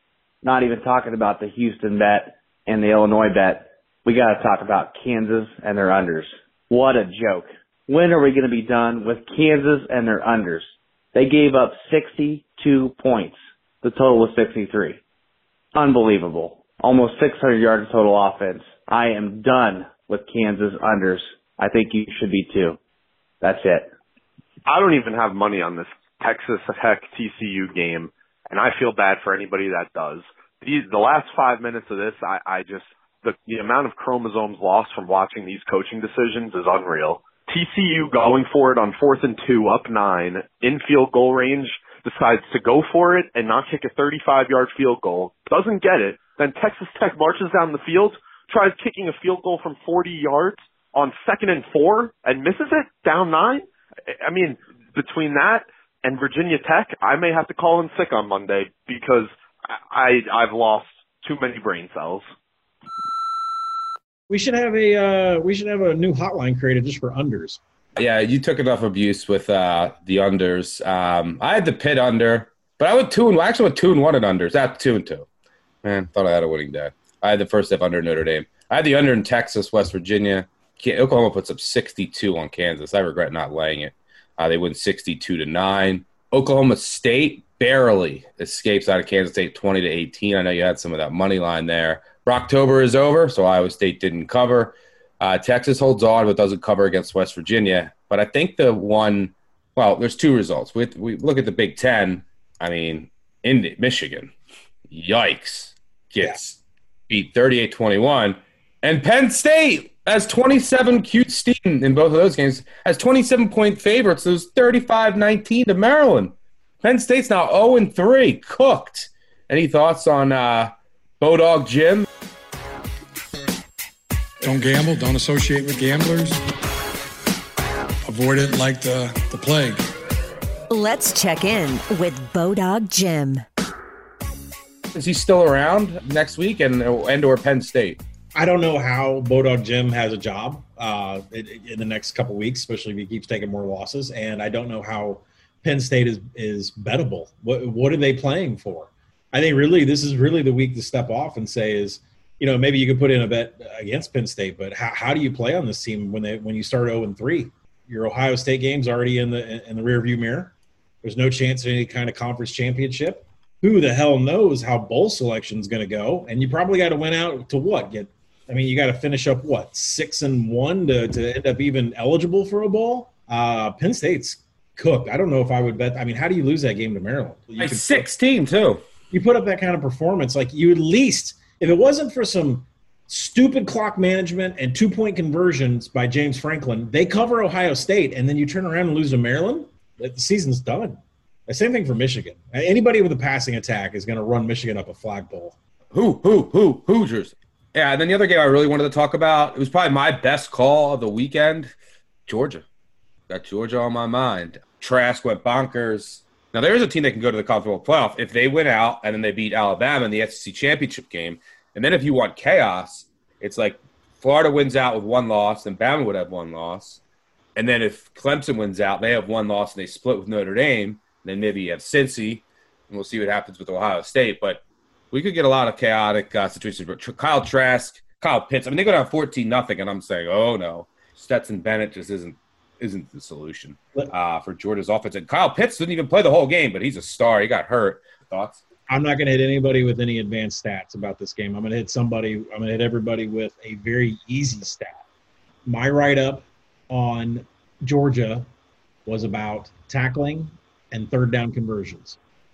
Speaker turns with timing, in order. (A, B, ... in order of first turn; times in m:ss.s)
0:00.4-0:15.0 A
0:15.7-0:22.8 A
0:23.4-0:23.9 A
0:24.7-0:53.7 B
0:54.2-1:02.3 B
1:04.3-1:07.6 C
1:08.0-1:15.3 D
1:15.8-1:44.3 D
1:44.9-2:02.0 D
2:04.4-2:06.4 E
2:08.0-2:09.8 E
2:10.7-2:13.4 F
2:14.9-2:18.0 D
2:18.4-2:58.1 C
2:57.6-2:58.8 D
2:59.1-3:15.6 C
3:15.9-3:21.7 D
3:22.3-3:22.6 D
3:23.3-3:37.0 D
3:37.6-3:44.6 D
3:45.1-3:58.6 D
3:58.9-4:05.0 C
4:05.7-4:08.5 C
4:09.1-4:12.2 C